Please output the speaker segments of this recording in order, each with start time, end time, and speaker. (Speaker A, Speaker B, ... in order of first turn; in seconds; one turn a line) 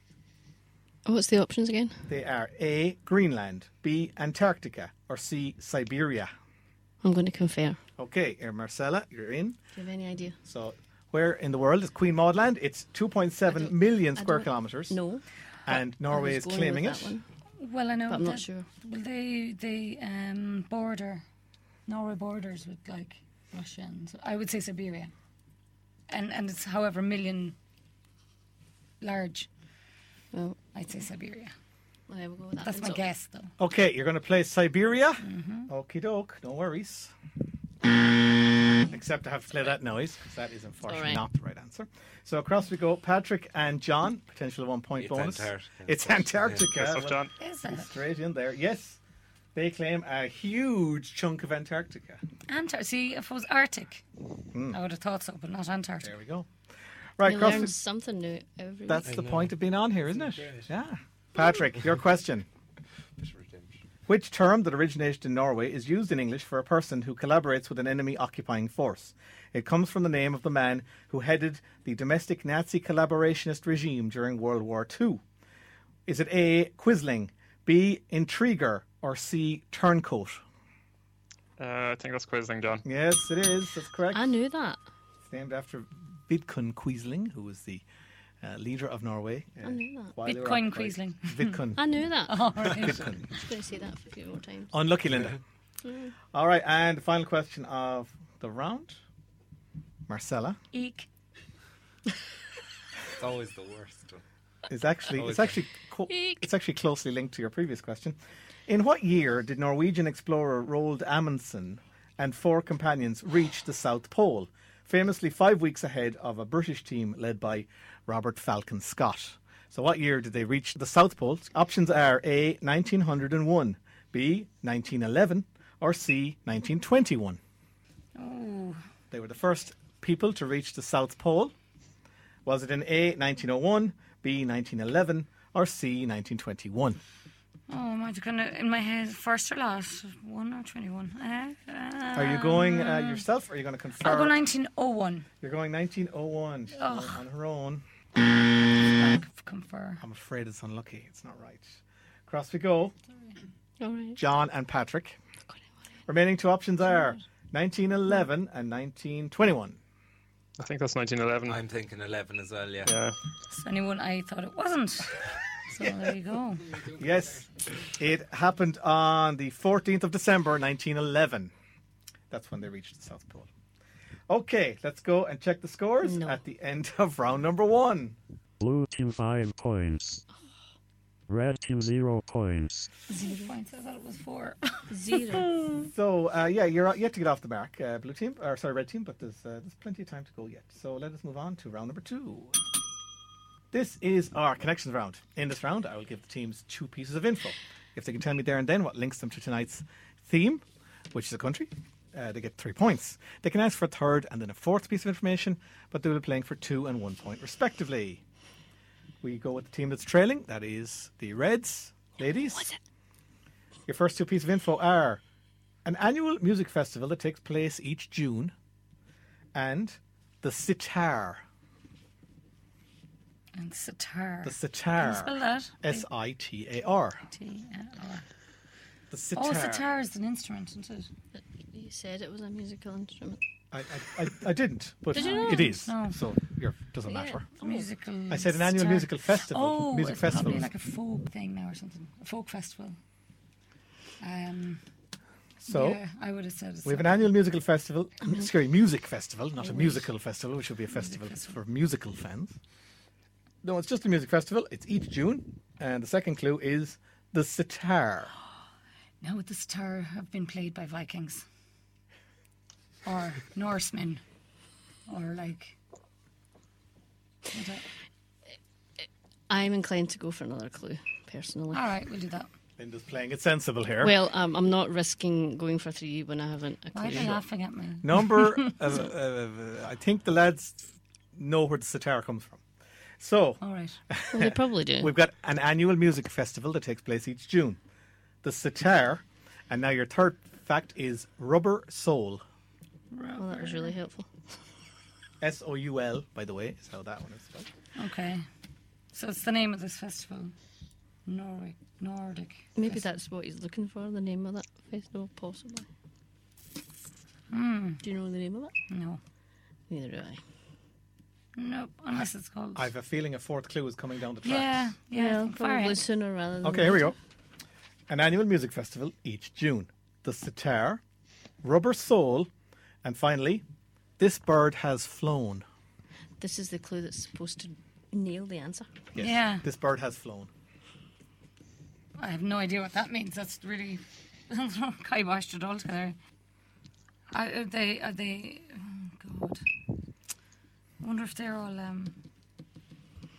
Speaker A: 1.1-2.0
Speaker B: 2.1-6.3
Speaker A: 7.0-7.8
Speaker B: 8.0-9.6
Speaker A: 9.7-10.4
Speaker B: 10.4-15.0
Speaker A: 13.5-17.3
Speaker B: 15.7-17.1
Speaker C: 17.6-21.2
Speaker A: 18.1-18.7
Speaker C: 21.9-25.1
Speaker C: 26.1-27.6
Speaker C: 29.0-29.5
Speaker C: 30.7-31.5
Speaker A: 32.1-33.0
Speaker C: 32.6-33.5
Speaker B: 33.6-37.1
Speaker C: 35.2-35.7
Speaker B: 38.8-49.0
Speaker A: 40.9-41.2
Speaker D: 45.0-46.7
Speaker E: 46.7-47.3
Speaker C: 47.4-47.9
Speaker B: 49.5-52.2
Speaker C: 52.5-54.0
Speaker B: 54.5-54.8
Speaker C: 54.7-56.1
Speaker B: 56.0-56.5
Speaker B: 57.2-57.8
Speaker A: 57.2-59.1
Speaker B: 58.9-62.5
Speaker D: 59.0-60.7
Speaker D: 63.2-63.8
Speaker B: 64.1-75.2
Speaker B: 76.1-80.4
Speaker E: 81.6-82.8
Speaker B: 82.8-84.3
Speaker A: 84.1-84.8
Speaker B: 85.2-87.8
Speaker B: 88.4-92.0
Speaker A: 89.6-90.1
Speaker C: 90.2-91.6
Speaker A: 91.8-92.5
Speaker C: 92.2-93.1
Speaker B: 92.7-93.3
Speaker A: 93.3-94.8
Speaker B: 94.7-95.4
Speaker A: 95.8-96.1
Speaker B: 96.3-99.0
Speaker B: 100.1-100.6
Speaker C: 100.7-101.1
Speaker D: 103.1-104.2
Speaker B: 104.7-127.4
Speaker D: 105.1-105.6
Speaker A: 106.1-106.4
Speaker C: 128.1-128.8
Speaker B: 129.1-131.5
Speaker B: 132.4-137.0
Speaker C: 137.7-143.2
Speaker B: 142.1-144.4
Speaker C: 144.0-145.3
Speaker B: 145.4-147.8
Speaker C: 146.7-147.2
Speaker B: 148.8-149.1
Speaker C: 149.0-150.0
Speaker B: 150.0-152.9
Speaker A: 153.8-154.2
Speaker B: 154.2-155.2
Speaker B: 156.1-159.8
Speaker E: 160.6-161.6
Speaker D: 161.5-162.9
Speaker E: 162.8-163.2
Speaker C: 163.5-166.8
Speaker B: 166.9-171.5
Speaker B: 172.3-173.5
Speaker B: 174.3-178.2
Speaker A: 176.0-176.4
Speaker F: 178.6-180.2
Speaker F: 181.3-182.9
Speaker C: 183.1-185.8
Speaker A: 184.9-185.6
Speaker B: 185.9-192.6
Speaker B: 193.7-208.2
Speaker B: 209.2-212.7
Speaker B: 213.9-215.2
Speaker B: 215.8-218.5
Speaker B: 219.5-221.4
Speaker C: 223.5-226.0
Speaker B: 224.4-227.2
Speaker C: 227.3-228.3
Speaker B: 229.1-229.9
Speaker C: 229.3-231.1
Speaker A: 231.4-233.4
Speaker B: 233.7-237.4
Speaker A: 235.1-235.7
Speaker C: 235.1-236.2
Speaker A: 237.1-237.9
Speaker C: 237.6-243.0
Speaker B: 238.3-240.7
Speaker C: 244.2-244.8
Speaker B: 245.6-246.0
Speaker C: 245.7-247.3
Speaker B: 246.8-252.6
Speaker C: 249.6-250.0
Speaker C: 251.0-251.4
Speaker B: 253.6-258.3
Speaker C: 259.2-261.5
Speaker C: 263.0-264.2
Speaker C: 265.1-265.8
Speaker C: 267.5-267.9
Speaker A: 269.5-271.8
Speaker C: 271.7-272.5
Speaker B: 272.8-274.1
Speaker A: 274.0-277.4
Speaker C: 276.9-278.8
Speaker B: 277.1-277.4
Speaker B: 278.0-280.8
Speaker B: 281.4-282.6
Speaker B: 283.2-287.8
Speaker C: 283.6-284.0
Speaker A: 284.3-285.1
Speaker B: 288.4-292.4
Speaker C: 293.1-293.9
Speaker A: 293.4-294.3
Speaker B: 295.4-297.7
Speaker C: 297.9-298.4
Speaker C: 299.1-300.5
Speaker C: 301.2-303.0
Speaker A: 302.8-305.9
Speaker C: 307.5-308.0
Speaker A: 308.0-308.7
Speaker C: 308.9-309.2
Speaker A: 309.9-310.4
Speaker C: 311.6-312.9
Speaker B: 312.8-314.8
Speaker C: 314.4-316.0
Speaker A: 315.1-317.1
Speaker B: 316.6-317.1
Speaker B: 318.1-321.0
Speaker B: 321.6-322.5
Speaker B: 323.0-323.6
Speaker B: 324.2-325.6
Speaker A: 326.4-328.9
Speaker B: 329.1-330.5
Speaker C: 329.2-329.6
Speaker C: 332.1-336.2
Speaker C: 337.3-339.6
Speaker C: 341.0-342.2